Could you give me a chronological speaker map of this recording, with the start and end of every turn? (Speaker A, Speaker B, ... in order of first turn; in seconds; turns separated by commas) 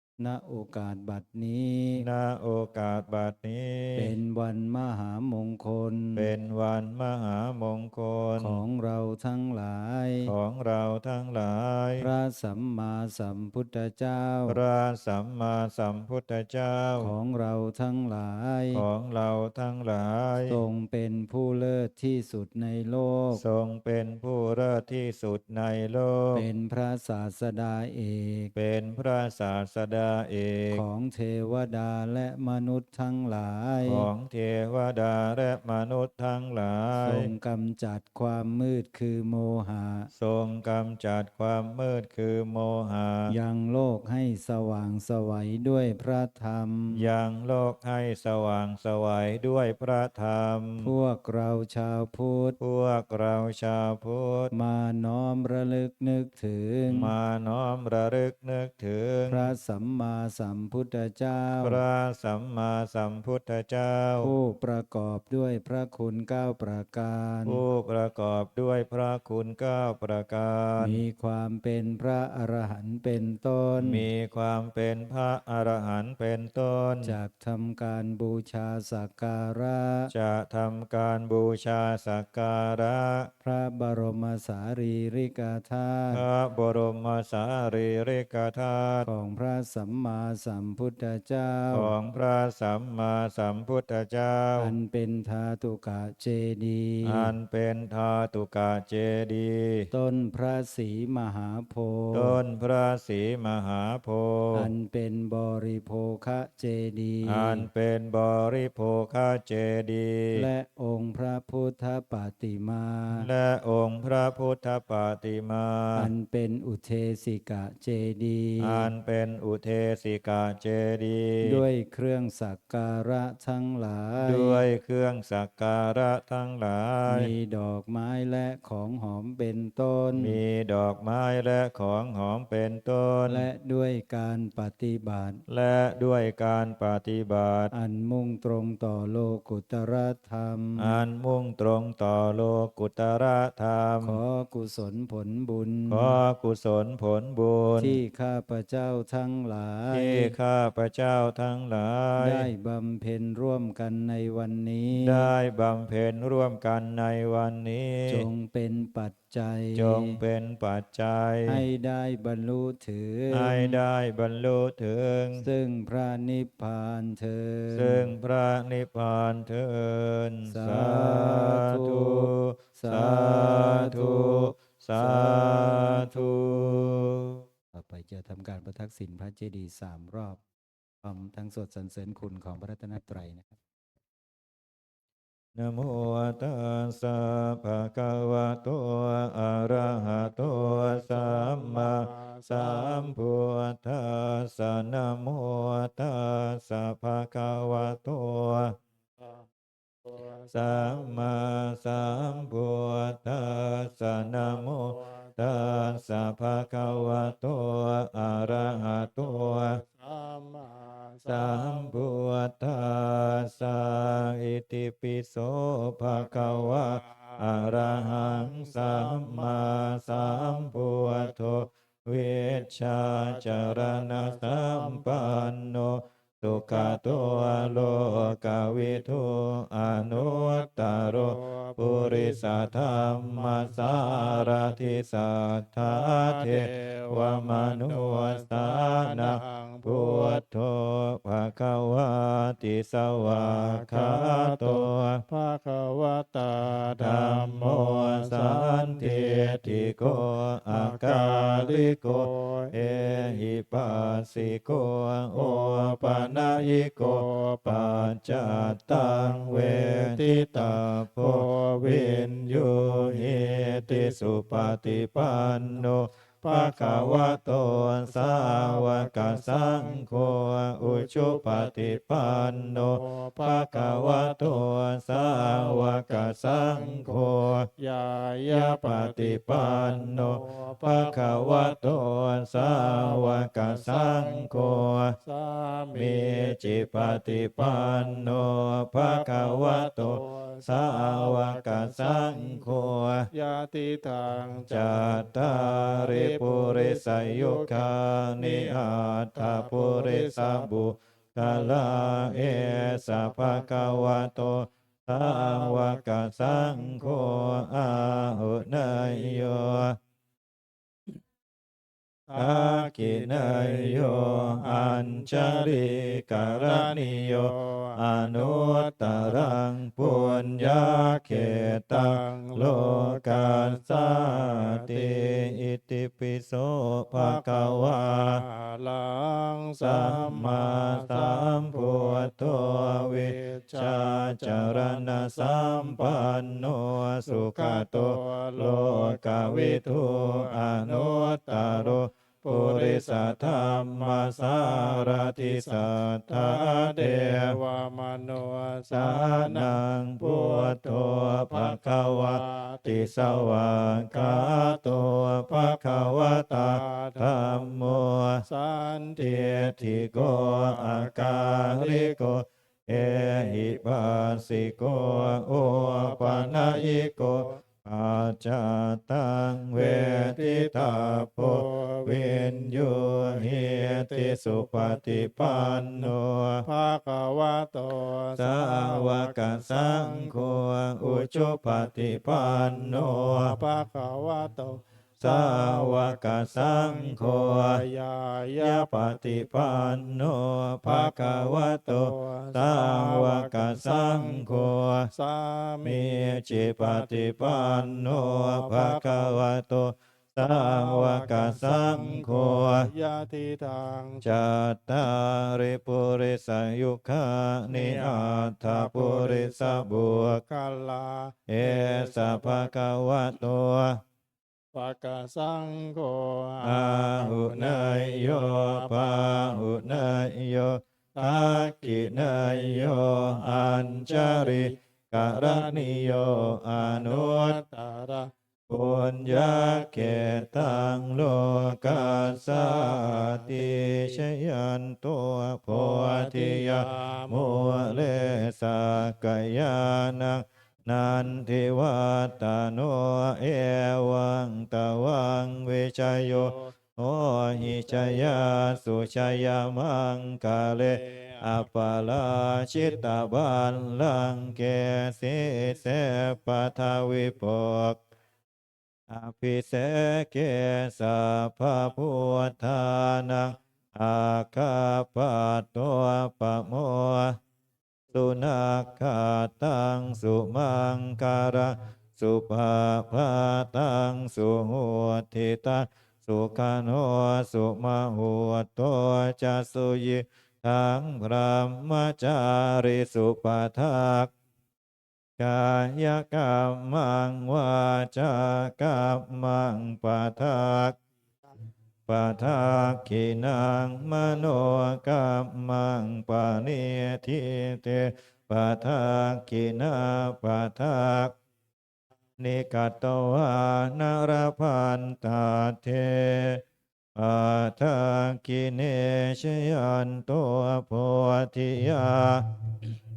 Speaker A: 0.2-2.0, Speaker B: 1.9-4.1, Speaker A: 3.9-6.3, Speaker B: 6.1-8.6, Speaker A: 8.4-10.3, Speaker B: 10.2-12.1, Speaker A: 12.0-14.6, Speaker B: 14.5-17.1, Speaker A: 17.0-18.8, Speaker B: 18.7-20.6, Speaker A: 20.5-23.4, Speaker B: 23.3-26.4, Speaker A: 26.3-28.5, Speaker B: 28.5-30.8, Speaker A: 30.7-34.1, Speaker B: 33.8-37.3, Speaker A: 37.0-40.1, Speaker B: 40.1-43.3, Speaker A: 43.3-47.0, Speaker B: 46.9-50.9, Speaker A: 50.8-52.6, Speaker B: 52.6-54.5, Speaker A: 54.5-57.1, Speaker B: 56.9-59.5, Speaker A: 59.3-61.8, Speaker B: 61.6-64.3, Speaker A: 64.2-67.6, Speaker B: 67.4-71.0, Speaker A: 70.8-74.0, Speaker B: 73.8-77.2, Speaker A: 77.0-80.1, Speaker B: 80.1-83.3, Speaker A: 83.4-86.2, Speaker B: 86.1-89.1, Speaker A: 89.0-91.9, Speaker B: 91.7-94.7, Speaker A: 94.6-97.3, Speaker B: 97.0-99.9, Speaker A: 99.9-102.4, Speaker B: 102.1-104.7, Speaker A: 104.5-107.7, Speaker B: 107.2-110.5, Speaker A: 110.3-113.3, Speaker B: 113.1-116.1, Speaker A: 115.9-118.9, Speaker B: 118.6-121.6, Speaker A: 121.4-124.6, Speaker B: 124.2-127.3, Speaker A: 127.1-130.4, Speaker B: 130.1-133.5, Speaker A: 133.3-135.4, Speaker B: 135.5-137.7, Speaker A: 137.7-141.0, Speaker B: 140.8-144.2, Speaker A: 144.0-146.2, Speaker B: 145.9-148.0, Speaker A: 147.8-150.3, Speaker B: 149.9-152.5, Speaker A: 152.2-155.3, Speaker B: 154.9-158.3, Speaker A: 158.1-160.2, Speaker B: 159.7-161.6, Speaker A: 161.4-163.8, Speaker B: 163.3-165.5, Speaker A: 165.4-168.1, Speaker B: 167.7-177.4, Speaker A: 170.5-176.1, Speaker A: 177.7-180.4, Speaker A: 181.0-183.6, Speaker B: 185.5-198.8, Speaker C: 190.8-193.1, Speaker C: 199.2-199.4, Speaker C: 200.0-202.5, Speaker B: 200.5-209.8, Speaker C: 203.5-207.3, Speaker C: 208.4-212.1, Speaker B: 211.2-245.2, Speaker C: 216.2-221.6, Speaker C: 223.0-225.5, Speaker C: 226.4-229.3, Speaker C: 229.8-235.1, Speaker C: 235.8-240.4, Speaker C: 243.3-254.8, Speaker B: 247.0-277.7, Speaker C: 255.3-265.9, Speaker C: 266.4-277.2, Speaker C: 277.8-298.8, Speaker B: 278.5-285.1, Speaker B: 285.9-293.3, Speaker B: 294.7-310.0, Speaker C: 299.3-304.3, Speaker C: 305.1-309.9, Speaker C: 312.3-325.6, Speaker B: 312.3-328.4, Speaker C: 327.1-336.7, Speaker B: 329.8-347.6, Speaker C: 337.2-362.3, Speaker B: 348.9-358.4, Speaker B: 359.2-376.6, Speaker C: 362.9-367.6, Speaker C: 369.7-389.7, Speaker B: 378.3-383.6, Speaker B: 385.2-387.8, Speaker B: 388.6-395.1, Speaker C: 390.8-399.4, Speaker B: 395.8-402.9, Speaker C: 400.4-404.5, Speaker B: 404.2-410.4, Speaker C: 407.7-412.9, Speaker B: 411.5-414.0, Speaker C: 414.7-420.3, Speaker B: 416.6-427.6, Speaker C: 421.2-428.3, Speaker B: 428.7-458.0, Speaker C: 429.4-431.1, Speaker C: 431.6-434.2, Speaker C: 435.7-438.5, Speaker C: 447.6-449.3, Speaker C: 450.7-451.7, Speaker B: 459.1-467.4, Speaker B: 468.1-484.3, Speaker B: 485.4-490.9, Speaker B: 492.1-501.3, Speaker B: 502.4-506.6, Speaker B: 507.1-512.8